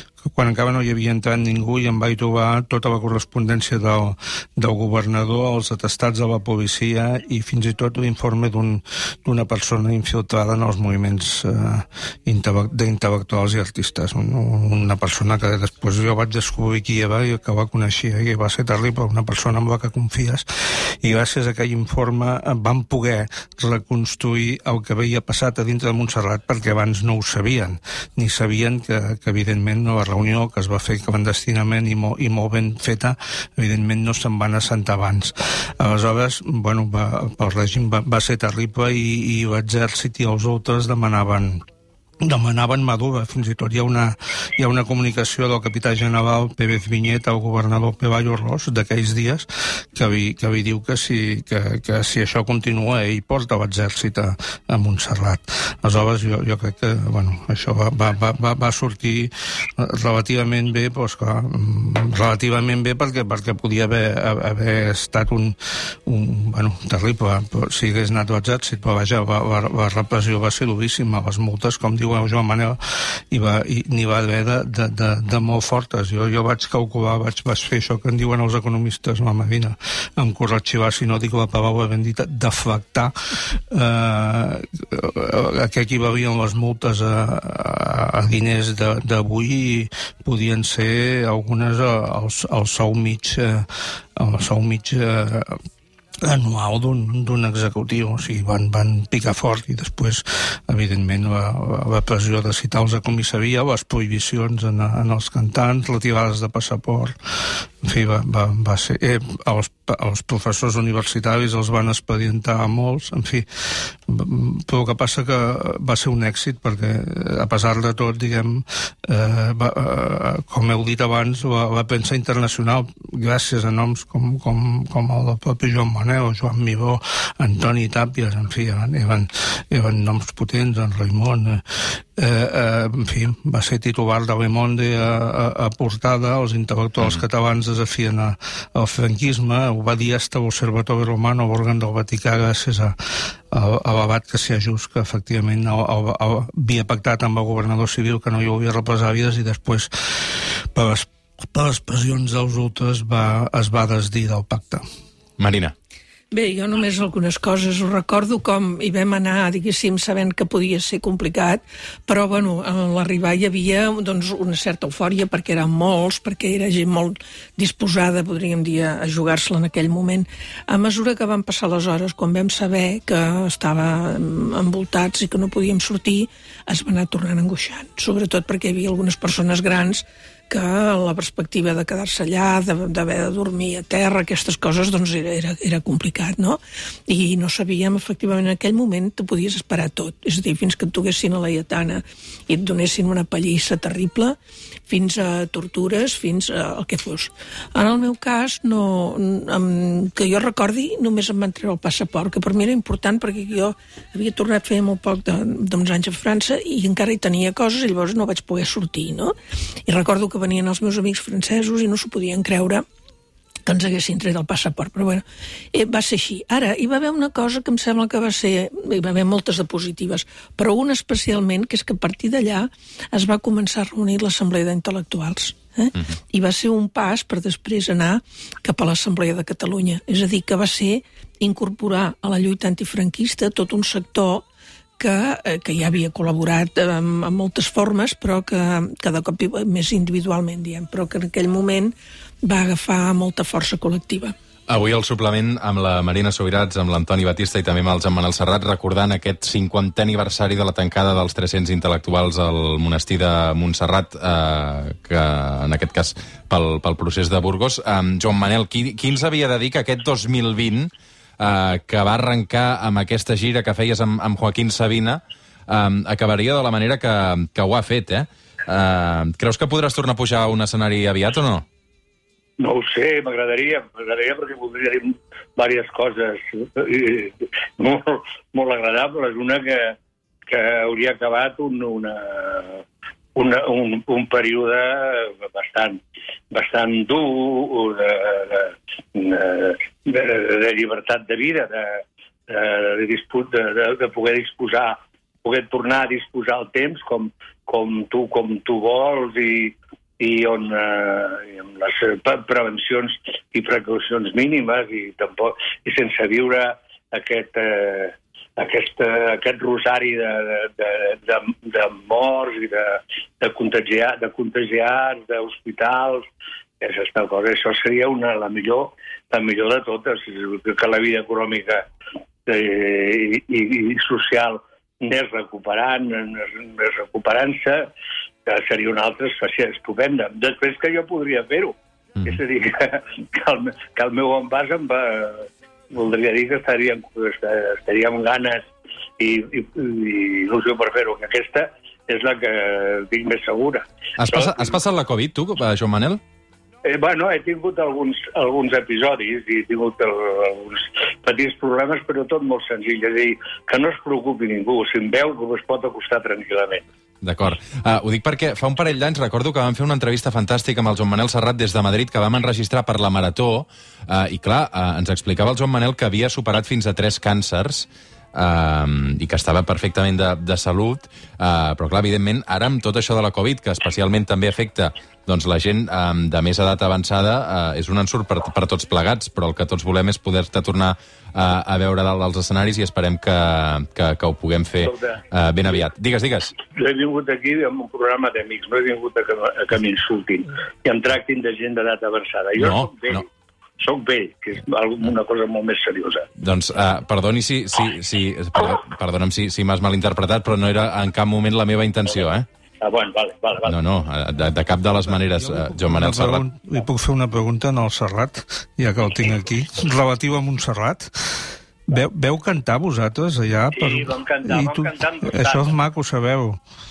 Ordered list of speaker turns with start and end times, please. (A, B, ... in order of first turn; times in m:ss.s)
0:00.2-0:41.6 A
0:42.2-1:12.8 A
1:13.3-1:35.6 A
1:36.2-2:34.8 A
2:35.4-2:35.7 B
2:36.3-3:14.4 C
3:14.9-3:29.3 C
3:29.9-3:32.8 C
3:33.7-3:54.4 C
3:55.0-4:04.4 C
4:04.7-4:31.6 B
4:32.6-4:40.0 D
4:40.5-4:42.8 D
4:43.4-4:46.0 D
4:46.5-5:16.3 D
5:16.8-5:21.8 D
5:22.5-5:27.9 D
5:28.5-5:31.8 D
5:32.3-5:38.7 D
5:39.2-5:44.7 D
5:44.2-5:46.2 B
5:46.8-5:56.8 D
5:57.2-6:26.6 B
6:24.8-6:25.2 D
6:26.7-6:33.3 D
6:32.6-6:33.2 B
6:33.8-6:36.3 D
6:36.4-6:42.5 B
6:42.8-6:43.8 D
6:43.6-6:46.4 B
6:45.4-6:56.6 A
6:53.8-6:55.7 D